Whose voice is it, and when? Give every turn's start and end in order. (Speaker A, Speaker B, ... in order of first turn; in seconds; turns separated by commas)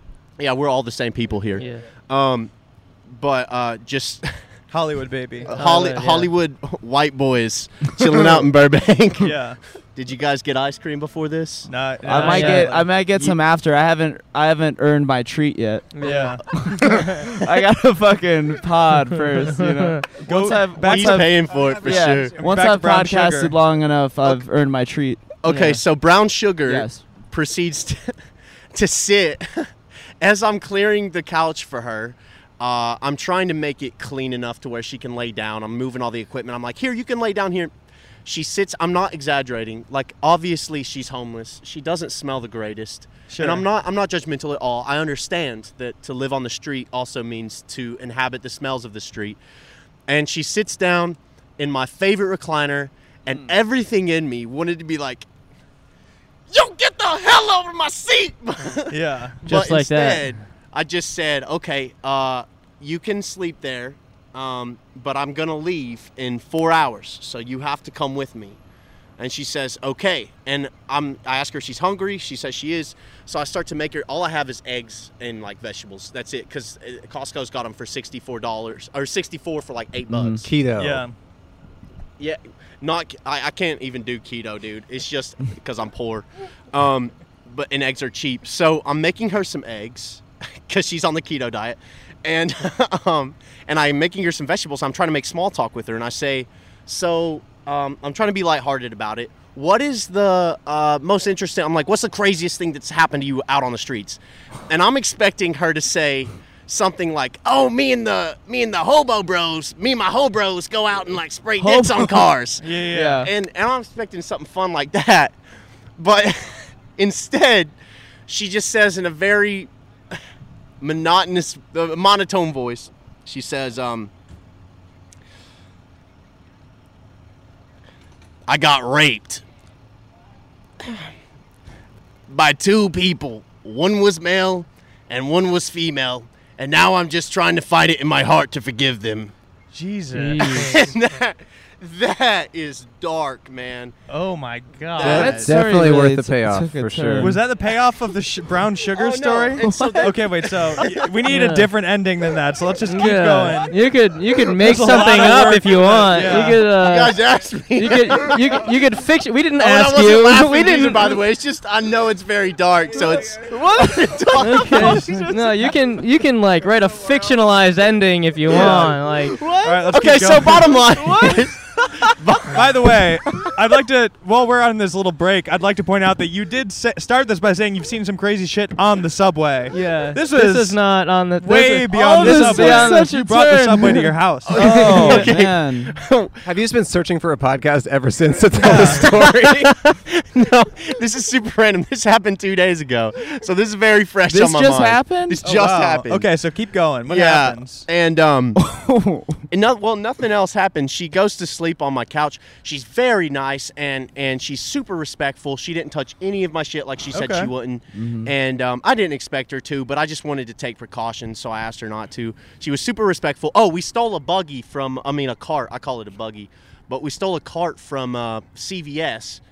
Speaker A: 0.4-2.5, Speaker B: 1.6-1.9, Speaker A: 3.1-4.3, Speaker C: 4.7-5.5, Speaker A: 5.5-9.4, Speaker B: 5.5-6.3, Speaker C: 9.2-9.6, Speaker A: 10.0-11.7, Speaker C: 11.7-13.0, Speaker D: 12.0-25.8, Speaker B: 12.1-12.7, Speaker A: 13.1-13.3, Speaker B: 15.9-17.1, Speaker C: 16.0-16.5, Speaker C: 20.1-23.6, Speaker A: 20.5-22.7, Speaker A: 25.4-28.1, Speaker D: 26.7-27.1, Speaker A: 28.7-29.7, Speaker A: 30.2-37.7, Speaker A: 38.2-49.4, Speaker C: 43.3-43.7, Speaker A: 50.1-55.3, Speaker A: 56.5-68.6, Speaker C: 58.9-59.5, Speaker B: 59.5-60.4, Speaker A: 69.2-80.4, Speaker D: 80.1-80.5, Speaker E: 80.4-81.0, Speaker C: 80.8-81.2, Speaker A: 82.2-115.4, Speaker D: 111.6-112.3, Speaker C: 112.6-113.2, Speaker D: 112.9-113.3, Speaker A: 116.0-117.7, Speaker A: 118.3-119.7, Speaker A: 120.8-124.1, Speaker A: 128.5-129.4, Speaker A: 132.3-139.3, Speaker C: 139.7-140.8, Speaker B: 140.1-140.9, Speaker A: 140.4-143.9, Speaker C: 144.1-145.5, Speaker A: 144.9-145.4, Speaker D: 145.0-147.4, Speaker E: 145.0-147.4, Speaker C: 147.2-153.7, Speaker A: 148.9-151.3, Speaker D: 149.6-150.1, Speaker B: 151.3-151.7, Speaker B: 152.9-157.2, Speaker C: 154.6-156.7, Speaker A: 154.7-155.7, Speaker A: 156.3-158.7, Speaker B: 157.8-160.9, Speaker A: 159.6-165.3, Speaker D: 163.2-165.7, Speaker B: 164.4-169.4, Speaker A: 166.7-167.5, Speaker A: 168.5-173.5, Speaker C: 168.5-169.0, Speaker D: 169.5-169.9, Speaker C: 169.6-171.0, Speaker D: 170.9-171.5, Speaker C: 172.5-180.8, Speaker B: 179.7-183.0, Speaker C: 181.4-185.1, Speaker D: 181.9-185.9, Speaker A: 184.4-186.4, Speaker B: 184.7-185.3, Speaker E: 186.4-189.7, Speaker A: 188.6-196.3, Speaker C: 188.6-189.1, Speaker D: 194.3-195.5, Speaker C: 195.4-197.9, Speaker A: 197.1-198.6, Speaker D: 198.6-199.4, Speaker A: 199.5-219.4, Speaker C: 207.1-207.5, Speaker D: 207.9-208.3